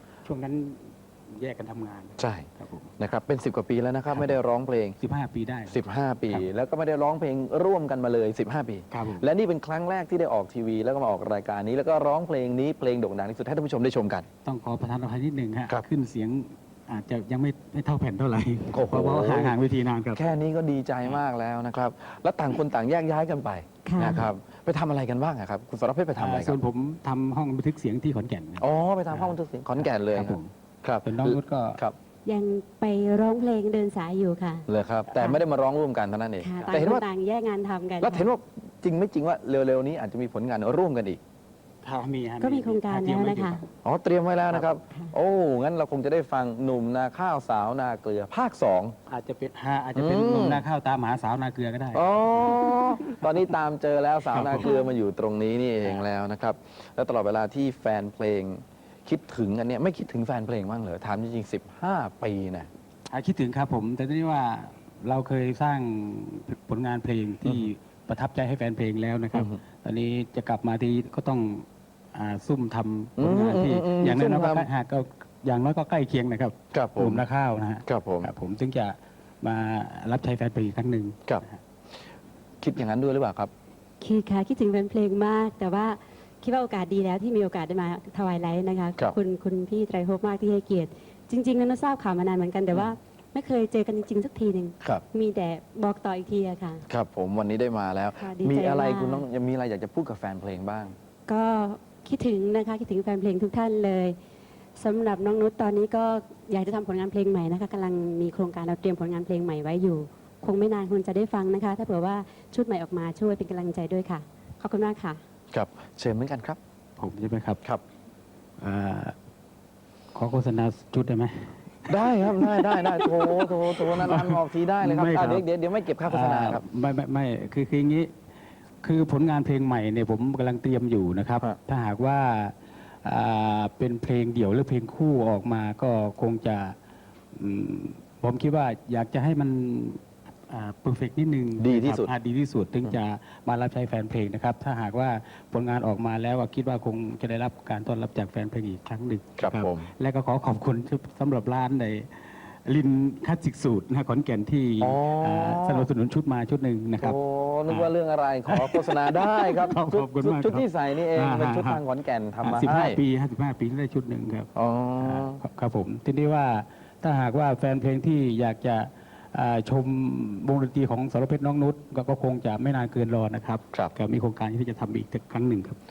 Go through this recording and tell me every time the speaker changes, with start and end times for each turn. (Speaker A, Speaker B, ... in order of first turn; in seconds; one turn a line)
Speaker A: 0.2-2.9
Speaker B: 2.2-5.0
Speaker A: 5.0-5.8
Speaker B: 5.7-14.3
Speaker A: 8.9-9.2
Speaker A: 14.4-20.3
Speaker B: 18.7-19.6
Speaker B: 20.1-26.6
Speaker C: 23.8-24.3
Speaker A: 26.1-30.5
Speaker B: 28.6-31.9
Speaker A: 31.0-31.8
Speaker C: 32.2-35.4
Speaker B: 34.7-37.0
Speaker C: 36.4-38.3
Speaker B: 38.0-41.2
Speaker A: 41.8-43.6
Speaker C: 42.4-43.6
Speaker B: 43.8-49.0
Speaker A: 49.1-53.3
Speaker B: 49.9-50.6
Speaker B: 51.9-62.7
Speaker A: 54.3-54.7
Speaker A: 63.1-81.6
Speaker B: 69.3-69.6
Speaker B: 73.2-74.7
Speaker B: 76.7-77.2
Speaker B: 77.8-78.3
Speaker B: 82.6-83.5
Speaker C: 84.0-96.8
Speaker B: 96.9-101.0
Speaker C: 98.2-99.2
Speaker C: 101.3-104.2
Speaker C: 104.8-115.2
Speaker B: 115.5-116.6
Speaker A: 117.0-117.6
Speaker A: 118.6-119.1
Speaker A: 120.1-125.4
Speaker B: 121.8-126.6
Speaker A: 126.0-128.1
Speaker A: 128.8-136.8
Speaker A: 137.3-157.9
Speaker B: 141.6-142.1
Speaker B: 149.4-149.9
Speaker B: 154.8-155.9
Speaker B: 157.0-163.0
Speaker A: 158.5-161.8
Speaker A: 162.4-175.8
Speaker B: 164.5-165.4